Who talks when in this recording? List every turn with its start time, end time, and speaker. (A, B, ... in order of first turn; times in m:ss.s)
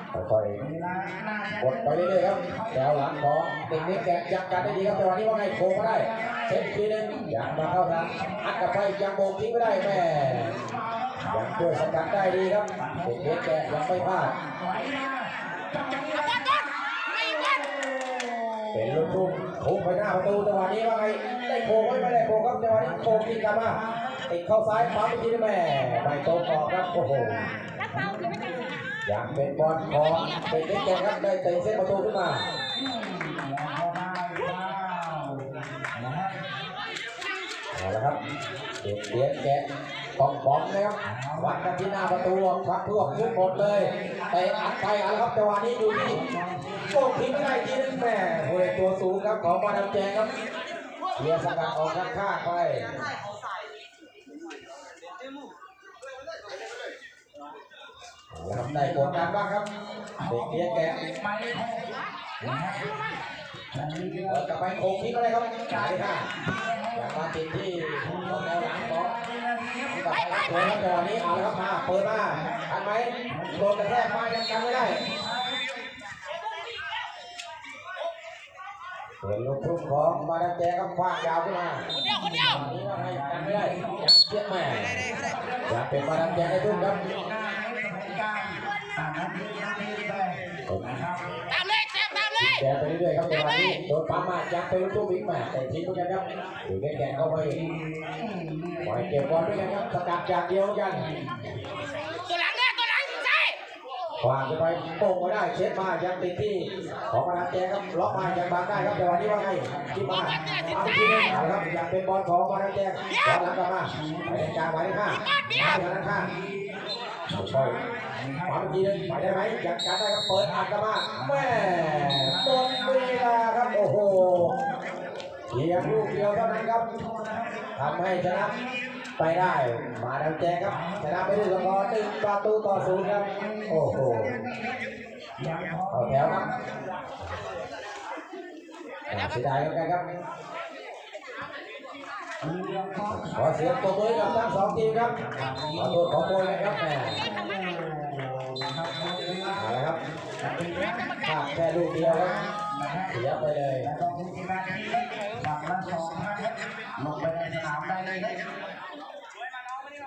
0:00.1-0:00.6 A
0:00.6-0:02.9 B
0:01.6-0:10.5 A
0:03.6-0:08.7 B
0:09.6-0:19.4 B
0:11.3-0:14.3 A
0:16.1-0:17.7 C
0:18.7-0:23.8 A
0:20.1-0:25.2 B
0:24.3-0:27.3 A
0:25.7-0:30.7 B
0:29.0-0:32.4 A
0:30.1-0:31.1 C
0:32.7-0:36.4 B
0:37.7-0:38.2 A
0:38.8-0:39.6 A
0:40.2-0:46.2 A
0:41.0-0:42.3 B
0:43.0-0:44.7 B
0:45.9-0:48.4 B
0:46.9-0:50.3 A
0:51.2-0:52.9 A
0:58.3-0:59.6 A
0:58.5-0:59.4 B
1:00.2-1:02.9 B
1:00.3-1:01.0 A
1:03.7-1:04.5 B
1:04.3-1:06.2 A
1:05.7-1:07.3 B
1:07.0-1:09.1 A
1:08.0-1:12.7 B
1:09.9-1:15.0 A
1:13.3-1:15.7 B
1:19.2-1:21.8 A
1:21.9-1:22.6 C
1:22.0-1:24.1 B
1:22.5-1:25.1 A
1:25.0-1:31.2 B
1:25.7-1:27.0 A
1:31.5-1:32.6 C
1:32.4-1:37.6 A
1:33.3-1:33.8 C
1:36.9-1:39.9 B
1:38.8-1:41.0 A
1:40.9-1:41.5 B
1:42.2-1:43.6 C
1:44.2-1:56.3 A
1:48.0-1:51.8 B
1:50.0-1:51.3 C
1:53.1-1:53.4 C
1:53.8-1:54.6 B
1:55.1-1:55.8 C
1:55.4-1:56.7 B
1:57.3-1:59.5 B
1:57.3-1:57.7 A
1:58.5-2:04.5 A
2:00.3-2:03.5 B
2:04.1-2:04.6 B
2:05.5-2:06.8 A
2:05.7-2:08.8 B
2:07.8-2:08.5 A
2:09.2-2:14.4 A
2:10.6-2:12.0 B
2:12.7-2:14.8 B
2:15.4-2:16.6 B
2:15.9-2:16.4 A
2:19.1-2:20.0 A
2:22.4-2:29.8 B
2:23.1-2:25.1 A
2:25.7-2:27.2 A
2:29.6-2:30.0 A
2:30.4-2:31.2 B
2:30.8-2:31.5 C
2:31.2-2:32.4 A
2:31.9-2:38.4 B
2:33.1-2:33.9 A